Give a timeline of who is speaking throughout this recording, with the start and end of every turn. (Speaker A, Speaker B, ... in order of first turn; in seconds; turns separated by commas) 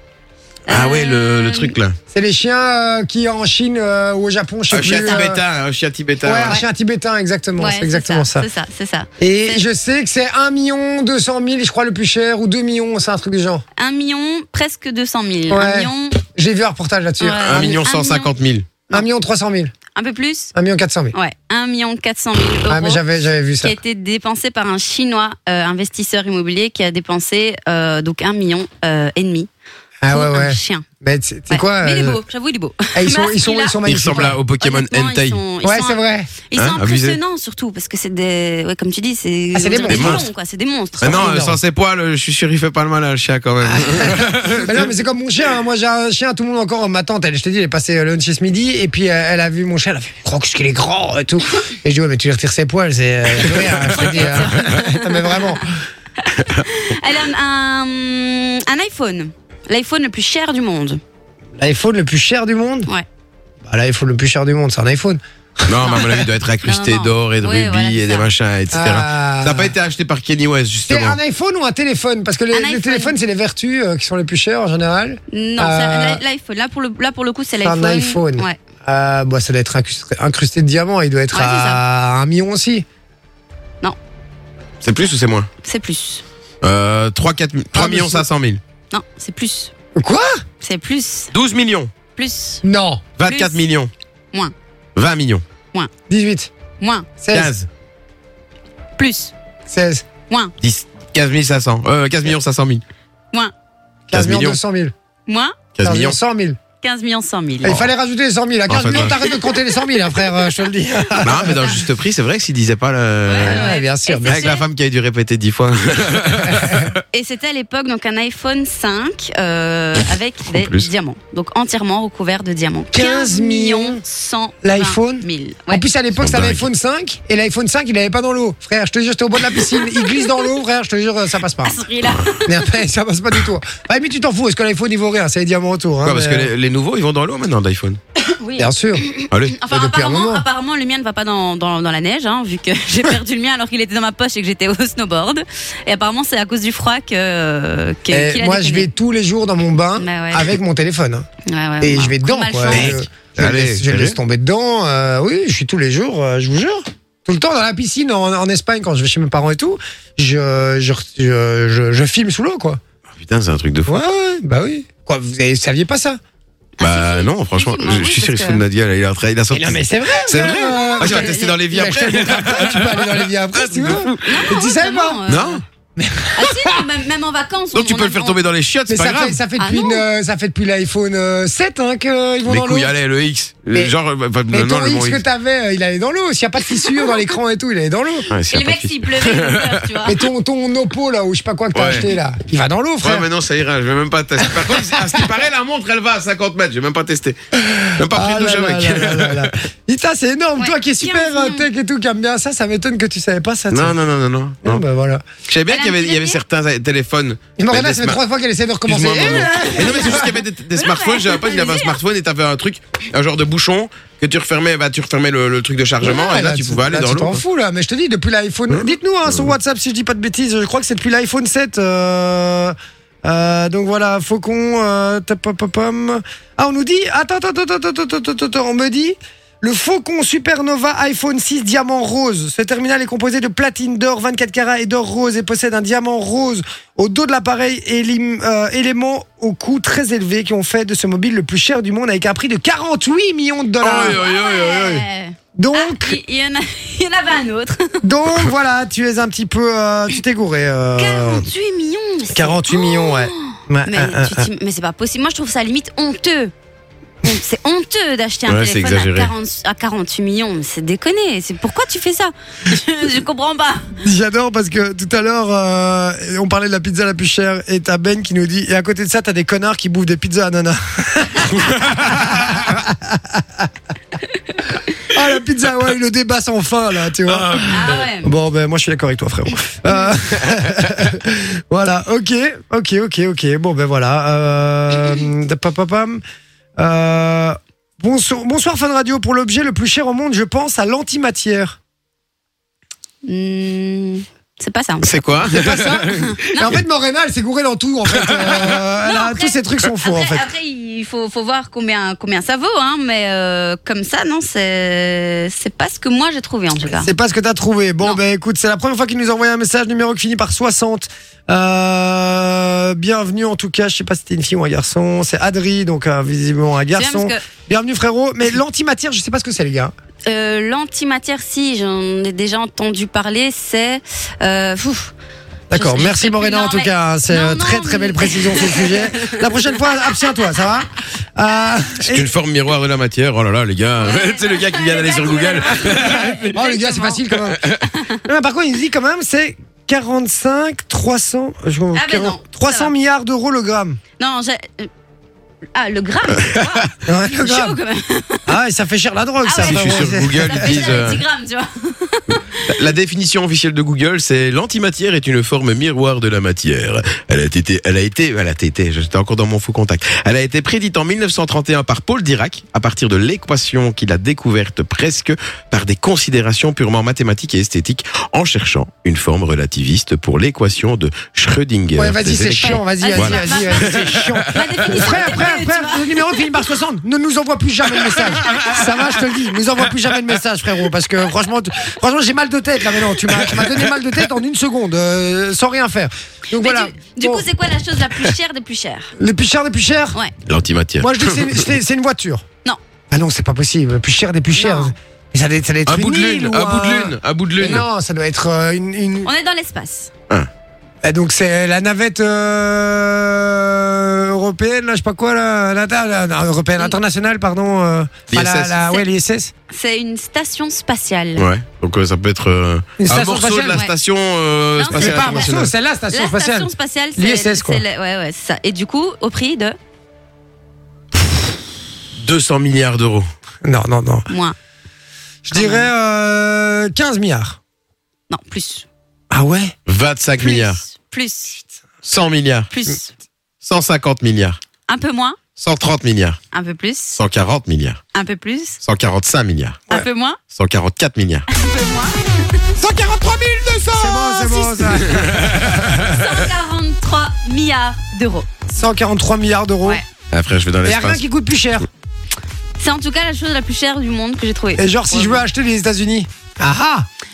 Speaker A: 0.7-1.8, Speaker B: 0.7-2.0, Speaker C: 2.1-5.4, Speaker B: 4.7-6.6, Speaker A: 4.9-5.3, Speaker C: 6.2-8.5, Speaker A: 7.6-9.6, Speaker C: 9.2-13.6, Speaker A: 13.8-16.2, Speaker C: 15.5-17.8, Speaker A: 17.2-18.3, Speaker B: 17.4-18.7, Speaker C: 18.9-19.7, Speaker A: 19.9-20.5, Speaker C: 20.5-21.1, Speaker A: 21.1-23.0, Speaker C: 22.6-23.8, Speaker A: 23.6-29.5, Speaker C: 30.0-32.2, Speaker A: 30.1-30.8, Speaker A: 31.5-41.3, Speaker C: 32.9-34.4, Speaker B: 33.8-35.4, Speaker C: 35.6-36.3, Speaker B: 36.5-37.2, Speaker C: 39.5-40.3, Speaker B: 39.8-40.2, Speaker C: 41.0-41.6, Speaker B: 41.0-44.9, Speaker C: 43.6-55.7, Speaker B: 53.3-54.7, Speaker A: 54.1-55.6, Speaker A: 56.2-61.0, Speaker C: 61.6-62.9, Speaker C: 63.6-66.2, Speaker B: 65.7-71.2, Speaker A: 66.6-68.3, Speaker C: 68.7-69.7, Speaker C: 70.8-76.2, Speaker A: 72.5-73.2, Speaker A: 75.3-78.6, Speaker C: 77.6-82.8, Speaker A: 81.3-81.8, Speaker B: 84.8-85.5, Speaker A: 85.6-86.2, Speaker B: 86.6-88.6, Speaker C: 87.7-88.2, Speaker A: 88.9-89.7, Speaker C: 89.9-90.4, Speaker A: 90.6-91.3, Speaker B: 91.3-91.9, Speaker A: 92.2-92.6, Speaker C: 92.6-93.0, Speaker B: 93.2-93.9, Speaker A: 93.2-93.6, Speaker B: 95.0-95.4, Speaker C: 96.1-96.5, Speaker A: 96.8-97.1, Speaker C: 97.2-97.5, Speaker B: 97.3-97.7, Speaker A: 99.0-99.3, Speaker C: 99.7-100.0, Speaker A: 100.3-100.5, Speaker B: 100.6-102.8, Speaker C: 104.1-104.9, Speaker B: 104.1-104.6, Speaker A: 105.2-105.6, Speaker B: 105.7-106.2, Speaker C: 105.8-106.6, Speaker A: 106.8-107.8, Speaker B: 107.6-107.9, Speaker C: 107.6-111.8, Speaker B: 108.7-109.3, Speaker B: 111.2-113.7, Speaker A: 111.4-111.7, Speaker A: 113.3-114.6, Speaker C: 113.4-114.5, Speaker B: 114.2-117.0, Speaker C: 116.5-116.8, Speaker A: 117.1-125.8, Speaker B: 120.5-120.9, Speaker C: 122.9-124.0, Speaker C: 124.6-131.8, Speaker B: 126.2-126.7, Speaker A: 129.6-130.5, Speaker A: 131.6-132.6, Speaker C: 132.4-136.5, Speaker B: 136.0-138.0, Speaker A: 138.3-148.9, Speaker C: 138.6-139.0, Speaker B: 139.3-139.6, Speaker C: 139.7-140.4, Speaker C: 148.1-151.3, Speaker A: 150.0-150.6, Speaker A: 151.4-153.0, Speaker C: 151.8-162.8, Speaker B: 152.7-154.2, Speaker B: 163.2-164.0, Speaker C: 163.8-166.2, Speaker A: 166.8-168.6, Speaker B: 166.8-174.4, Speaker C: 169.5-175.2, Speaker A: 170.5-171.5, Speaker A: 174.2-175.6, Speaker B: 175.3-175.6, Speaker C: 175.9-176.8, Speaker A: 176.3-178.4, Speaker B: 177.7-179.4, Speaker C: 178.9-182.9, Speaker A: 179.6-180.1, Speaker B: 182.4-185.2, Speaker C: 184.5-188.3, Speaker B: 188.3-190.1, Speaker A: 188.5-190.2, Speaker C: 190.0-193.3, Speaker B: 191.7-192.1, Speaker B: 193.0-197.4, Speaker C: 194.4-195.3, Speaker C: 197.5-203.9, Speaker B: 197.9-199.5, Speaker A: 200.6-201.7, Speaker B: 203.7-204.8, Speaker C: 204.6-205.2, Speaker B: 205.5-208.2, Speaker A: 205.7-206.4, Speaker C: 207.6-210.3, Speaker B: 208.8-217.4, Speaker A: 209.2-212.0, Speaker C: 216.0-244.2, Speaker B: 218.7-219.5, Speaker B: 243.8-245.0, Speaker A: 243.9-248.0, Speaker C: 245.5-246.2, Speaker C: 248.0-251.5, Speaker A: 251.0-256.5, Speaker C: 252.3-254.5, Speaker A: 257.2-264.0, Speaker B: 258.5-259.3, Speaker C: 264.0-273.6, Speaker B: 272.0-272.7, Speaker C: 275.1-286.2, Speaker B: 277.3-278.0, Speaker A: 277.7-278.3, Speaker C: 286.8-291.8, Speaker A: 293.2-295.5, Speaker B: 295.0-296.8, Speaker C: 295.5-300.5, Speaker A: 296.1-296.7, Speaker B: 298.3-298.8, Speaker A: 299.0-307.1, Speaker C: 306.9-319.9, Speaker A: 316.9-317.4, Speaker A: 320.2-325.1, Speaker C: 325.7-332.3, Speaker A: 325.7-329.9, Speaker B: 332.0-336.4, Speaker A: 334.0-338.2, Speaker C: 335.9-344.0, Speaker B: 337.4-337.9, Speaker A: 341.9-342.9, Speaker A: 344.2-344.9, Speaker A: 345.7-348.5, Speaker C: 347.0-347.8, Speaker C: 348.5-351.1, Speaker A: 349.4-352.7, Speaker B: 349.5-351.2, Speaker B: 352.7-375.4, Speaker C: 372.0-387.4, Speaker A: 372.5-376.4, Speaker B: 378.0-379.2, Speaker B: 383.2-383.9, Speaker A: 386.5-389.1, Speaker C: 389.2-390.2, Speaker B: 390.4-391.7, Speaker C: 391.0-392.4, Speaker C: 393.1-399.3, Speaker A: 394.5-394.9, Speaker B: 395.9-397.9, Speaker A: 399.2-400.1, Speaker C: 401.0-409.5, Speaker B: 408.3-408.9, Speaker A: 409.7-411.5, Speaker B: 411.4-415.7, Speaker C: 413.0-413.8, Speaker A: 414.8-419.8, Speaker C: 414.9-417.8, Speaker B: 422.2-423.2, Speaker C: 423.6-424.3, Speaker A: 424.3-424.6, Speaker C: 425.4-427.6, Speaker A: 425.5-425.9, Speaker A: 428.3-428.9, Speaker C: 429.3-429.7, Speaker B: 429.9-430.8, Speaker A: 430.4-431.6, Speaker B: 432.0-432.7, Speaker A: 432.7-433.1, Speaker B: 433.6-434.6, Speaker A: 434.9-435.4, Speaker B: 435.6-436.4, Speaker A: 436.5-437.2, Speaker B: 437.1-438.0, Speaker A: 438.1-438.8, Speaker B: 438.8-439.9, Speaker A: 439.9-440.4, Speaker B: 440.5-441.5, Speaker A: 441.5-442.1, Speaker B: 442.8-444.0, Speaker C: 443.9-445.6, Speaker A: 444.0-448.5, Speaker B: 445.0-446.3, Speaker C: 448.7-450.0, Speaker B: 450.3-451.2, Speaker C: 450.8-451.9, Speaker A: 452.8-455.4, Speaker C: 454.8-457.1